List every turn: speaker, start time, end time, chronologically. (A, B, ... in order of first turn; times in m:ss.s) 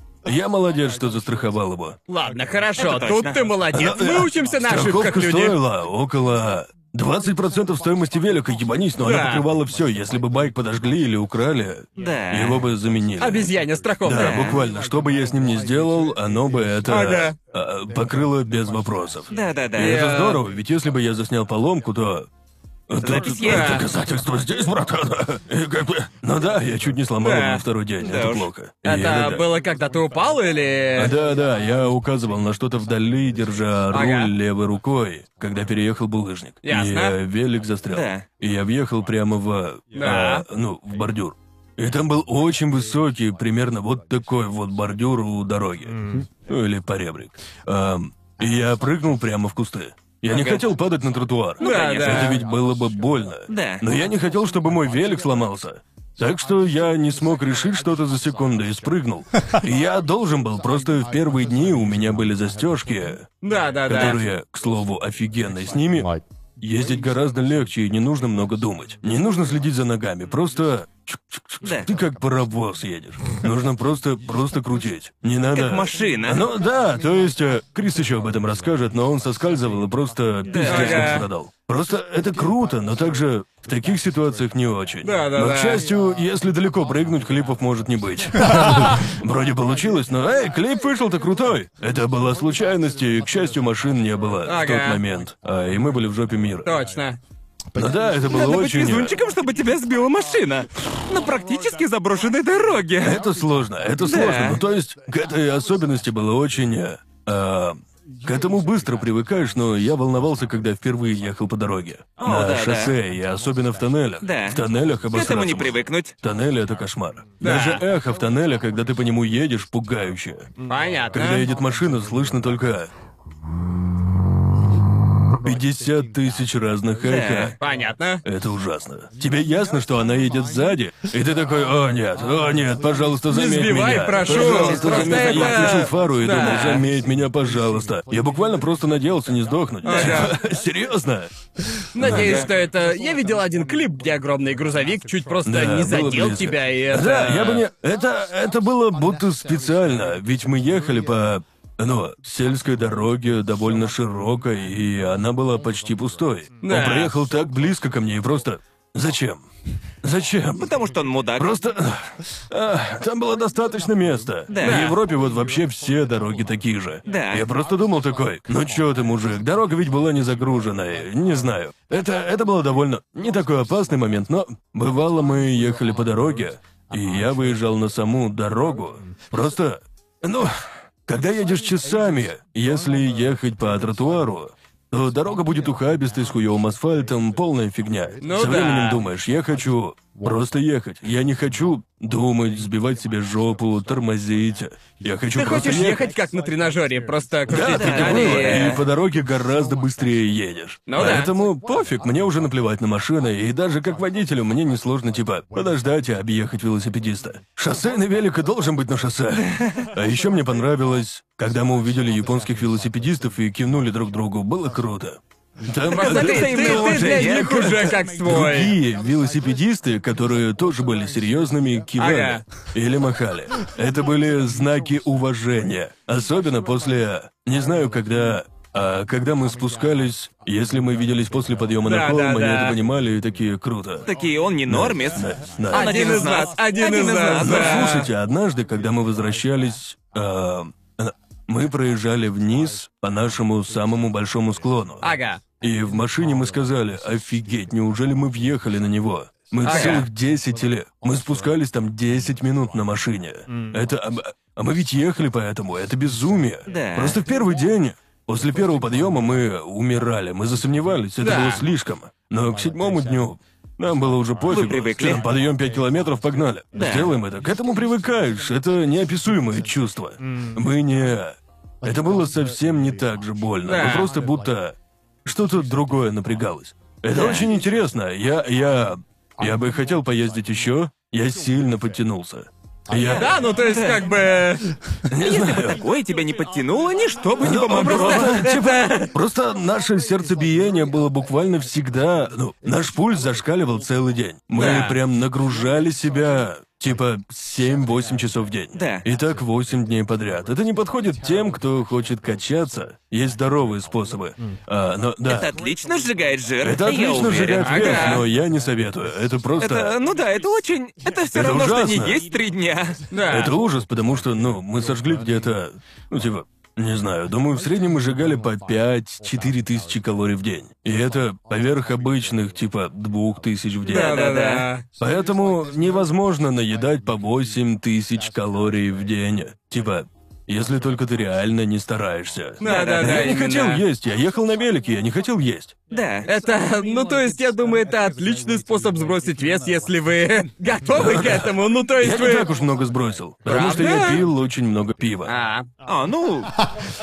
0:00.2-0:02.0 A
0:02.1-0:05.6 B
0:02.8-0:03.5 C
0:03.7-0:22.3 A
0:09.0-0:09.5 B
0:12.0-0:12.6 C
0:13.2-0:14.6 B
0:14.2-0:14.6 C
0:16.9-0:17.4 B
0:19.3-0:20.0 C
0:19.8-0:20.4 B
0:22.9-0:29.4 A
0:23.0-0:23.8 C
0:23.1-0:23.9 B
0:27.2-0:27.6 B
0:28.0-0:28.5 C
0:28.8-0:31.1 B
0:31.0-1:36.7 A
0:33.9-0:34.3 B
0:36.6-0:37.2 B
0:37.9-0:38.2 C
0:40.0-0:40.5 B
0:50.3-0:50.6 C
0:51.6-0:52.4 C
0:51.6-0:52.4 B
0:53.5-0:53.8 C
1:03.4-1:04.2 B
1:03.9-1:04.2 C
1:11.6-1:11.9 C
1:15.5-1:16.4 C
1:20.5-1:21.2 C
1:20.6-1:21.3 B
1:25.0-1:25.8 B
1:34.5-1:35.0 B
1:36.6-1:37.2 B
1:37.8-1:39.2 A
1:38.3-1:43.2 C
1:43.0-2:00.5 A
1:44.1-1:44.6 C
1:52.2-1:53.0 C
1:54.2-1:54.6 C
1:55.1-1:56.2 C
1:57.4-1:57.8 B
2:00.7-2:01.5 B
2:01.1-2:02.9 A
2:05.3-2:07.6 A
2:07.1-2:07.5 C
2:07.6-2:08.2 B
2:08.2-2:22.5 A
2:13.3-2:16.8 B
2:14.4-2:15.5 C
2:19.8-2:20.4 B
2:21.9-2:27.6 B
2:22.0-2:22.5 C
2:25.4-2:39.4 A
2:36.6-2:37.1 B
2:40.0-2:40.7 A
2:40.6-2:41.6 C
2:41.4-3:16.0 A
2:44.5-2:44.9 C
2:44.6-2:45.0 B
2:47.1-2:47.5 C
3:08.2-3:09.0 B
3:15.3-3:18.8 B
3:17.5-3:54.1 A
3:17.6-3:18.8 C
3:20.9-3:21.3 B
3:29.4-3:29.9 C
3:35.9-3:38.8 B
3:35.9-3:37.5 C
3:42.0-3:42.4 B
3:51.8-3:52.8 B
3:54.0-3:58.1 C
3:54.7-3:56.1 A
3:55.7-3:58.1 B
3:57.4-4:43.3 A
4:05.0-4:05.4 B
4:09.6-4:10.0 B
4:09.7-4:10.0 C
4:16.7-4:17.2 C
4:21.2-4:21.6 B
4:24.5-4:25.2 C
4:26.8-4:27.1 C
4:33.7-4:34.1 B
4:37.1-4:37.5 C
4:43.0-4:44.0 C
4:43.1-4:44.7 B
4:45.1-4:45.8 A
4:45.2-4:48.5 C
4:47.4-5:05.5 A
4:47.7-4:49.1 B
4:54.6-4:55.0 B
4:58.8-4:59.0 C
5:05.3-5:08.2 C
5:06.6-5:10.0 A
5:07.6-5:08.2 B
5:09.6-5:13.0 C
5:11.3-5:12.2 A
5:13.1-5:13.5 B
5:13.3-5:24.2 A
5:23.9-5:24.8 B
5:24.0-5:24.7 C
5:25.0-5:35.8 A
5:32.6-5:33.8 B
5:32.6-5:33.3 C
5:35.9-5:36.3 C
5:36.3-5:42.5 B
5:41.0-5:45.3 A
5:43.5-5:44.2 B
5:45.3-5:45.7 B
5:45.9-5:46.6 C